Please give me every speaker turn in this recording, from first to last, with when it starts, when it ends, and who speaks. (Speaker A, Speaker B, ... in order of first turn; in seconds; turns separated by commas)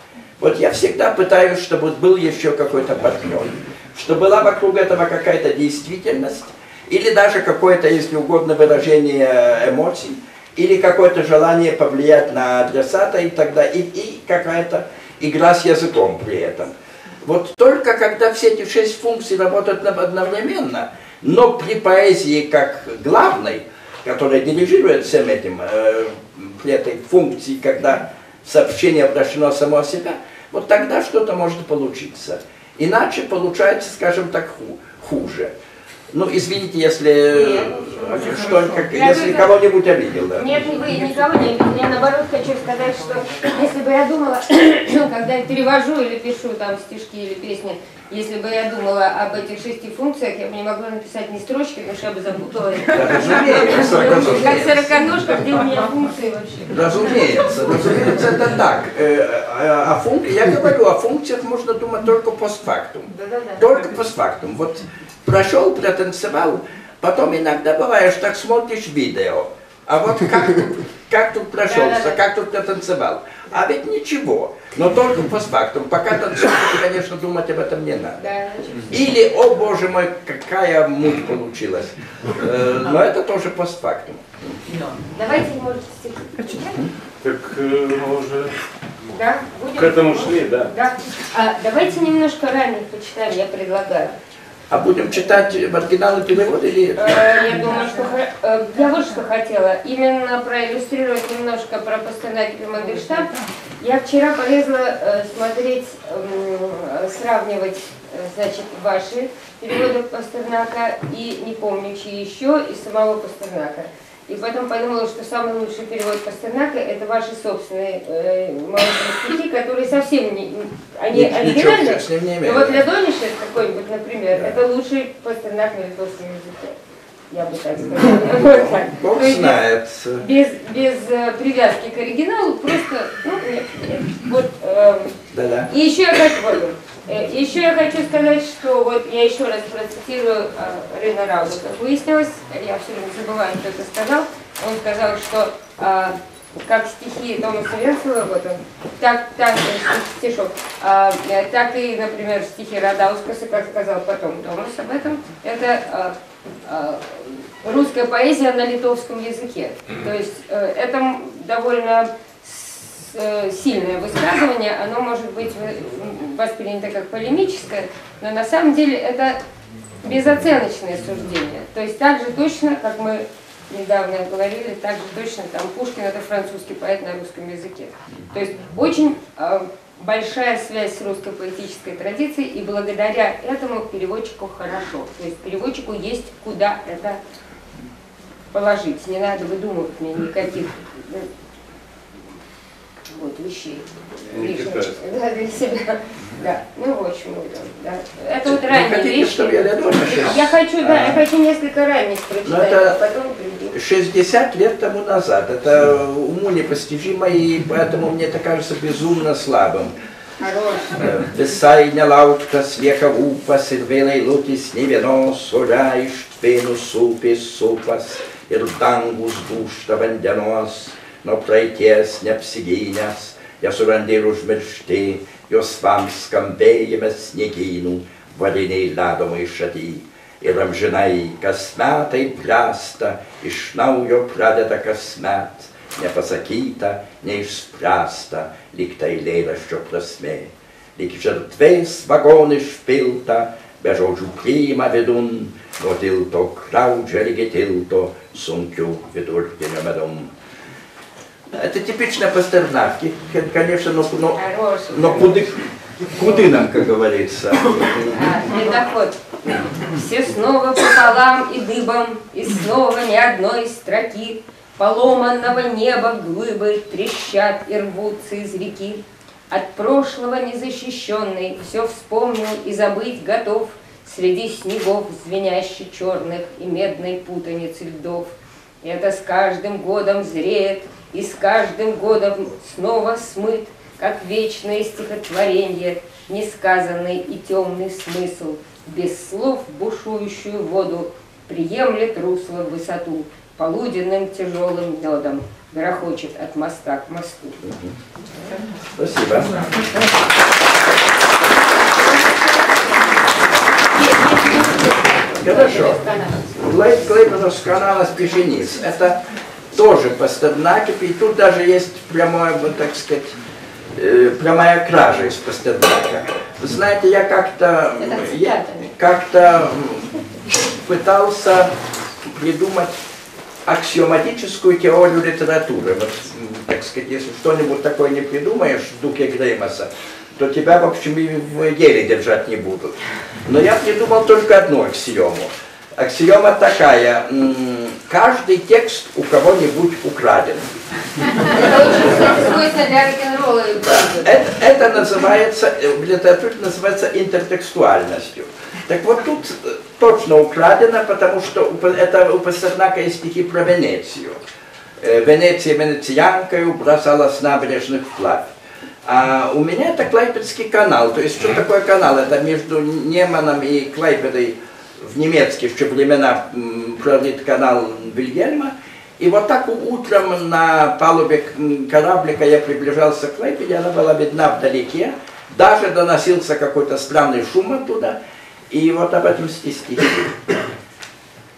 Speaker A: 0.4-35.5, Speaker A: 36.1-40.7, Speaker B: 37.3-39.5, Speaker B: 40.3-57.2, Speaker A: 52.9-55.0, Speaker A: 56.7-78.3, Speaker B: 63.1-63.8, Speaker B: 71.7-72.2, Speaker B: 78.2-78.9, Speaker A: 78.9-84.6, Speaker B: 85.2-86.9, Speaker C: 87.2-88.5, Speaker B: 89.1-94.2, Speaker C: 89.8-90.7, Speaker A: 94.7-97.3, Speaker B: 97.0-126.8, Speaker A: 121.1-122.8, Speaker B: 127.3-129.6, Speaker A: 127.8-130.3, Speaker B: 130.2-135.2, Speaker A: 135.3-135.7, Speaker B: 135.7-156.2, Speaker B: 156.7-169.4, Speaker B: 170.0-187.2, Speaker B: 188.5-191.3, Speaker B: 193.1-203.8, Speaker C: 194.3-195.0, Speaker A: 198.4-201.2, Speaker A: 202.4-203.0, Speaker A: 203.7-210.0, Speaker B: 210.4-211.3, Speaker A: 211.0-250.3, Speaker A: 251.5-255.6, Speaker B: 254.3-255.6, Speaker A: 256.1-258.5, Speaker B: 256.2-256.5, Speaker B: 258.1-259.2, Speaker B: 259.8-297.6, Speaker A: 297.6-297.9, Speaker B: 298.4-298.6, Speaker A: 299.0-300.1, Speaker B: 304.0-306.9, Speaker A: 305.4-306.0, Speaker A: 306.6-309.2, Speaker A: 309.7-313.4, Speaker A: 313.9-321.7, Speaker B: 318.0-318.9, Speaker A: 322.2-322.9, Speaker A: 323.7-340.7, Speaker B: 341.4-344.5, Speaker A: 344.2-354.4, Speaker A: 355.0-358.5, Speaker A: 359.1-378.2, Speaker A: 378.7-380.4